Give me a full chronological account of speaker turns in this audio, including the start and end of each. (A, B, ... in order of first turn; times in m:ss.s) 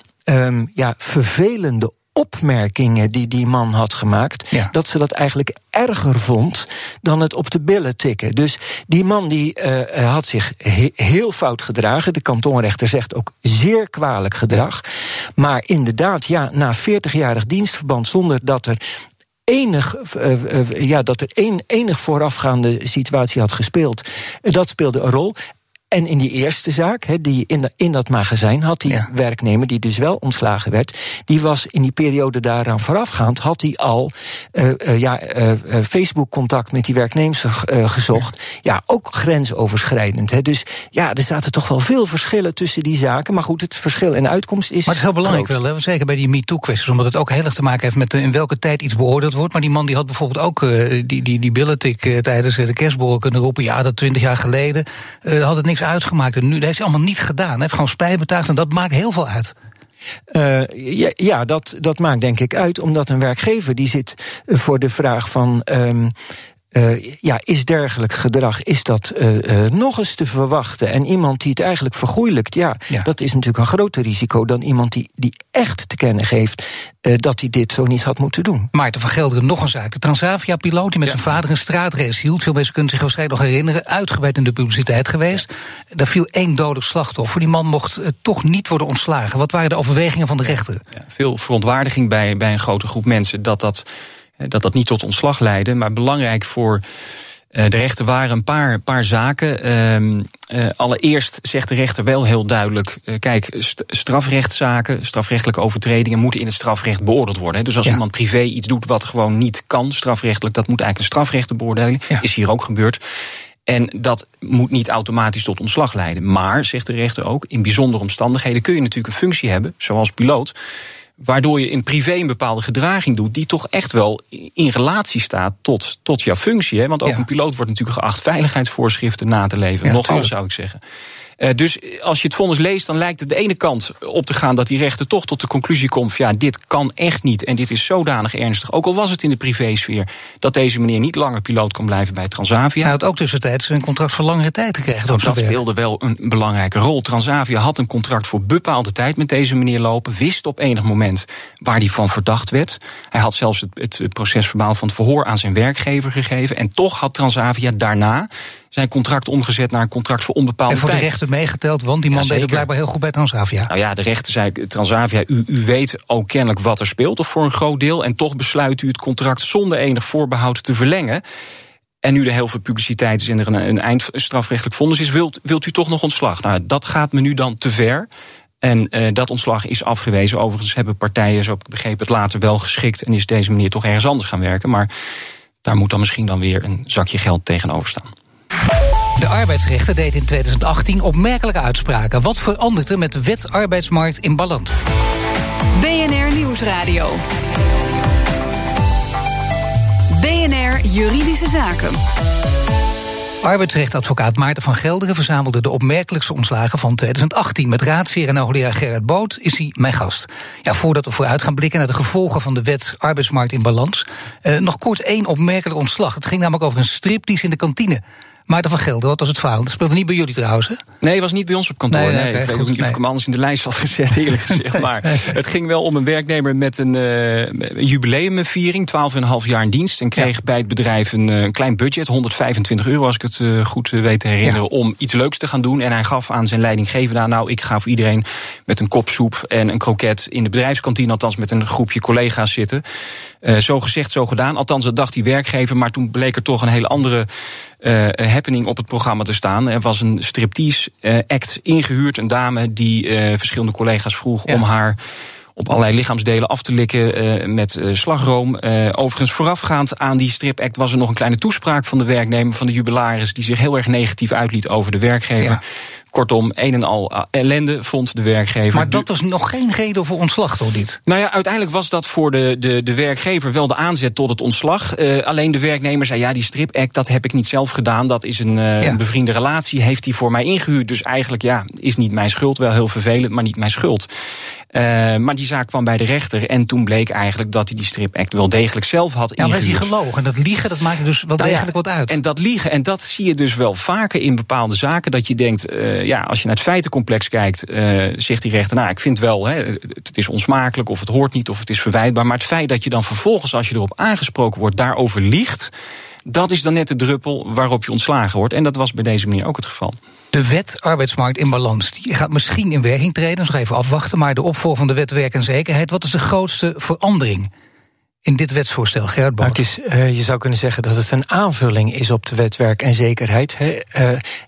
0:00.3-0:14.8 A
0:15.4-0:18.8 A
0:19.5-0:25.4 A
0:25.9-0:45.5 A
0:44.9-0:59.5 B
1:00.3-1:06.1 A
1:06.7-1:18.7 A
1:18.7-1:30.8 B
1:31.0-1:33.8 C
1:34.4-1:36.8 C
1:37.5-1:53.0 C
1:53.7-2:00.5 C
2:01.2-2:10.8 C
2:09.8-2:10.3 B
2:11.4-2:22.9 C
2:22.8-2:25.6 B
2:25.1-2:41.2 C
2:40.7-2:43.7 B
2:42.1-2:42.7 C
2:43.7-2:51.2 C
2:52.0-2:58.1 C
2:58.6-3:04.9 C
3:05.6-3:08.1 C
3:09.2-3:14.7 B
3:15.7-3:17.2 D
3:20.1-3:22.0 D
3:23.4-3:40.8 B
3:41.0-4:02.8 C
3:41.9-3:43.0 B
4:03.4-4:07.3 C
4:07.8-4:15.0 C
4:15.6-4:25.6 C
4:26.1-4:29.0 C
4:28.7-4:31.0 B
4:31.0-4:44.1 C
4:44.7-4:49.9 C
4:49.4-4:52.2 B
4:51.4-5:05.7 C
5:06.3-5:10.0 C
5:10.3-5:17.5 B
5:18.2-5:19.6 B
5:19.4-5:24.2 A